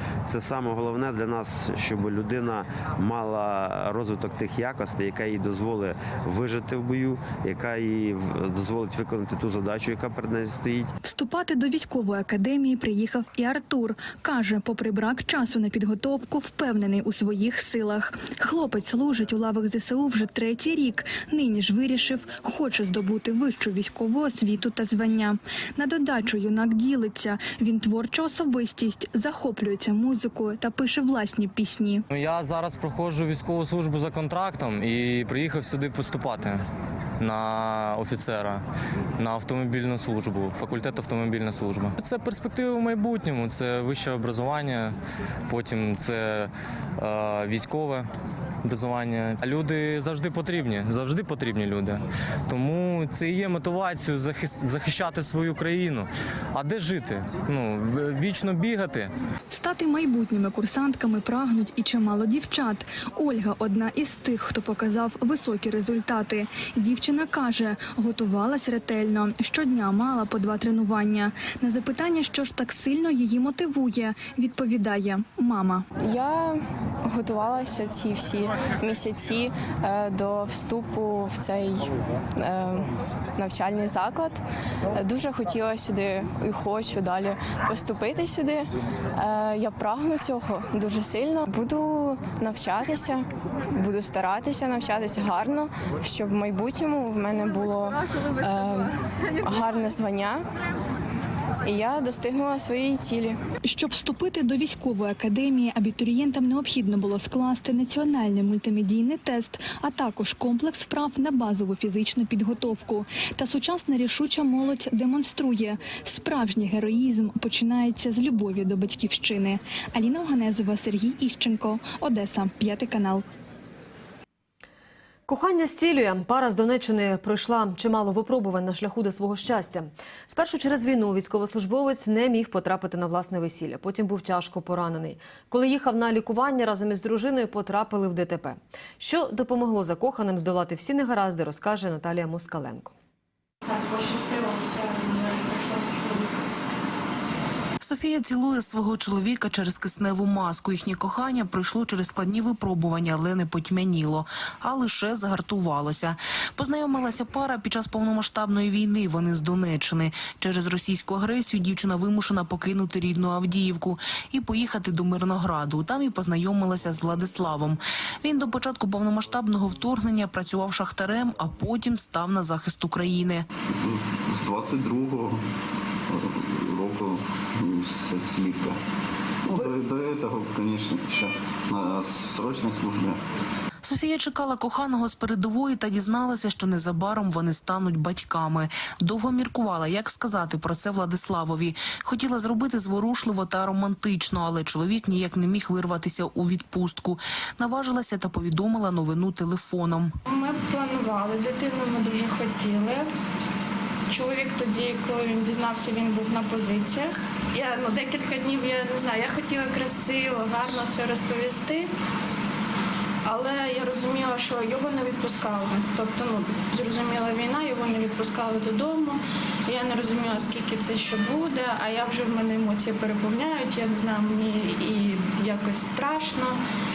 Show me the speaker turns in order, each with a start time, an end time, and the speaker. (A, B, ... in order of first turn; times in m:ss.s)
0:00.3-0:10.9 A
0:11.0-0:32.0 B
0:32.1-0:36.6 C
0:37.2-0:38.6 C
0:39.2-0:45.0 C
0:45.5-0:48.1 C
0:48.6-0:59.1 C
0:59.5-1:15.9 B
1:16.0-1:24.4 D
1:24.9-1:40.5 D
1:41.6-1:43.4 D
1:43.6-2:03.2 B
2:05.3-2:22.9 E
2:23.8-2:25.8 D
2:27.8-2:53.5 F
2:53.8-2:55.4 G
2:56.1-2:58.8 G
2:59.4-3:03.2 G
3:03.8-3:20.1 F
3:20.3-3:23.1 H
3:24.1-3:31.9 H
3:33.3-3:46.6 H